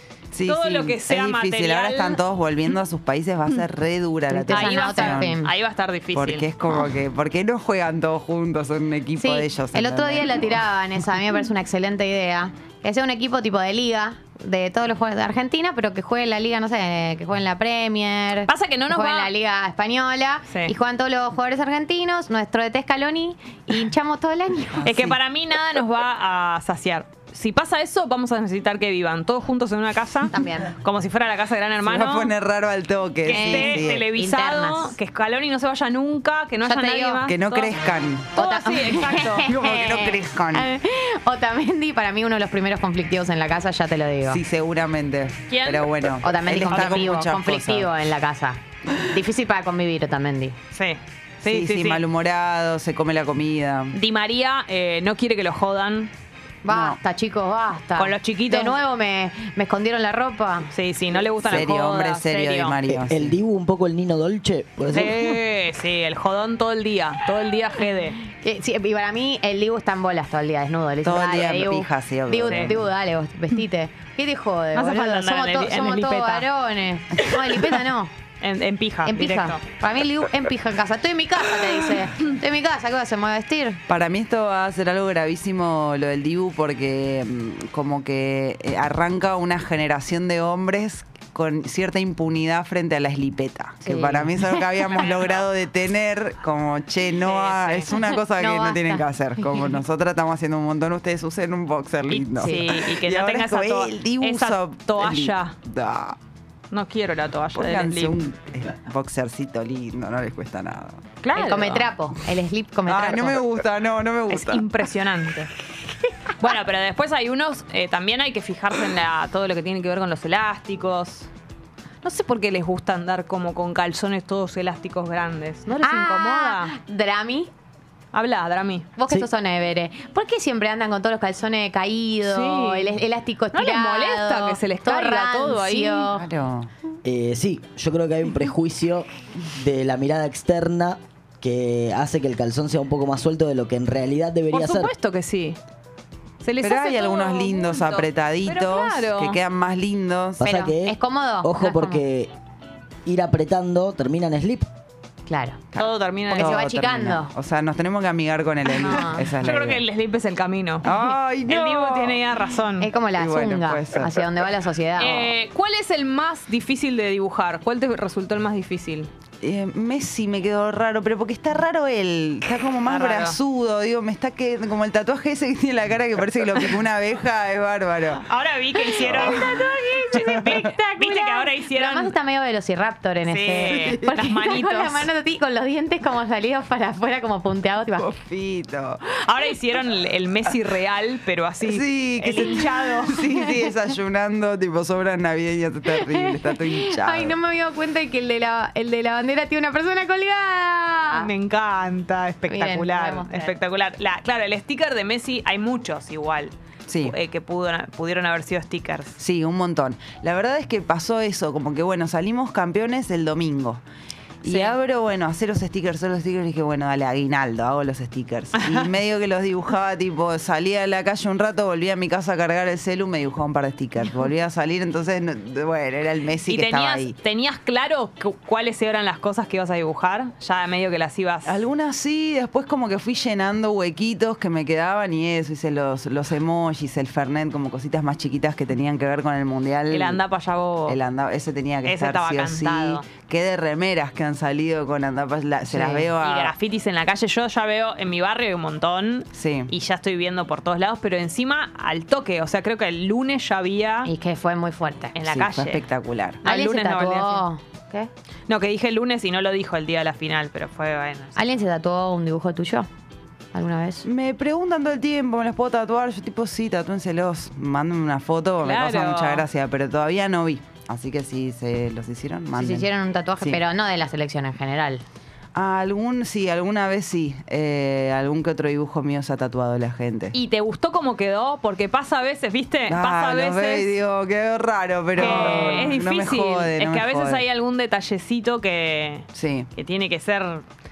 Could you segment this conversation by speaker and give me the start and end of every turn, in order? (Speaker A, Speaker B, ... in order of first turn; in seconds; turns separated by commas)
Speaker A: 0.3-5.4, Speaker B: 0.4-2.2, Speaker C: 4.3-5.5, Speaker B: 4.5-6.5, Speaker A: 6.1-10.5, Speaker C: 9.2-24.9, Speaker B: 18.5-19.3, Speaker A: 24.7-25.2, Speaker B: 24.8-32.3, Speaker C: 30.3-30.7, Speaker A: 31.8-34.1, Speaker B: 33.2-37.8, Speaker C: 33.3-34.9, Speaker C: 36.6-37.2, Speaker A: 37.2-38.3, Speaker B: 38.3-39.5, Speaker C: 38.4-44.4, Speaker A: 39.4-40.7, Speaker A: 44.3-47.9, Speaker B: 45.5-45.9, Speaker C: 46.2-50.5, Speaker B: 50.7-52.0, Speaker A: 51.4-53.9, Speaker B: 53.9-56.1, Speaker C: 56.6-60.7, Speaker A: 56.7-57.0, Speaker B: 58.0-58.8, Speaker B: 60.7-62.8, Speaker A: 61.4-63.4, Speaker D: 63.0-65.4, Speaker B: 64.9-68.2, Speaker C: 68.3-78.1, Speaker A: 71.0-72.9, Speaker B: 72.5-72.7, Speaker B: 74.7-76.5, Speaker B: 78.4-79.6, Speaker C: 79.0-83.8, Speaker A: 83.9-106.2, Speaker C: 93.8-94.9, Speaker B: 94.9-95.4, Speaker B: 97.2-98.0, Speaker C: 98.0-99.7, Speaker C: 102.3-102.8, Speaker B: 102.3-105.5, Speaker B: 106.7-108.2, Speaker A: 107.5-111.0, Speaker B: 111.2-111.9, Speaker C: 111.3-113.4, Speaker A: 112.8-114.6, Speaker B: 114.3-115.5, Speaker B: 116.4-121.3, Speaker B: 122.0-126.7, Speaker C: 125.8-127.5, Speaker B: 128.1-128.9, Speaker C: 128.9-136.2, Speaker B: 132.2-132.9, Speaker B: 133.5-136.1, Speaker A: 136.1-136.7, Speaker D: 137.0-144.9, Speaker B: 144.5-145.6, Speaker B: 146.4-149.4, Speaker A: 146.6-150.4, Speaker D: 150.4-152.3, Speaker C: 150.4-152.0, Speaker D: 153.1-154.7, Speaker C: 155.3-155.6, Speaker A: 155.7-159.8, Speaker B: 155.8-156.6, Speaker C: 156.3-157.3, Speaker B: 158.8-162.9, Speaker C: 158.8-159.2, Speaker A: 160.8-162.2, Speaker C: 162.8-165.3, Speaker A: 163.2-164.2, Speaker B: 165.0-169.1, Speaker A: 169.4-178.3, Speaker B: 172.8-173.4, Speaker B: 178.2-182.1, Speaker A: 179.0-179.5, Speaker C: 179.2-188.1, Speaker A: 180.1-180.6, Speaker B: 183.2-185.1, Speaker A: 187.9-189.0, Speaker B: 189.2-193.2, Speaker A: 191.6-197.3, Speaker C: 193.3-193.6, Speaker C: 195.9-201.3, Speaker B: 201.1-209.2, Speaker C: 202.5-203.5, Speaker A: 206.9-207.1, Speaker A: 209.2-213.8, Speaker A: 214.4-227.2, Speaker B: 214.4-214.8, Speaker B: 218.5-218.9, Speaker B: 226.4-231.6, Speaker A: 231.4-240.2, Speaker B: 239.9-241.0, Speaker A: 240.8-246.5, Speaker B: 241.8-243.1, Speaker C: 245.7-246.1, Speaker B: 246.2-254.1, Speaker A: 249.3-249.7, Speaker C: 254.0-255.1, Speaker B: 255.1-255.8, Speaker A: 255.3-256.4, Speaker B: 256.4-257.4, Speaker C: 256.4-258.1, Speaker B: 258.5-261.3, Speaker C: 261.4-262.9, Speaker C: 263.5-264.1, Speaker A: 264.0-272.9, Speaker B: 268.6-269.4, Speaker C: 272.5-275.0, Speaker A: 275.5-280.3, Speaker B: 280.3-283.9, Speaker A: 282.9-287.4, Speaker B: 285.1-290.6, Speaker C: 285.2-285.8, Speaker A: 289.3-289.7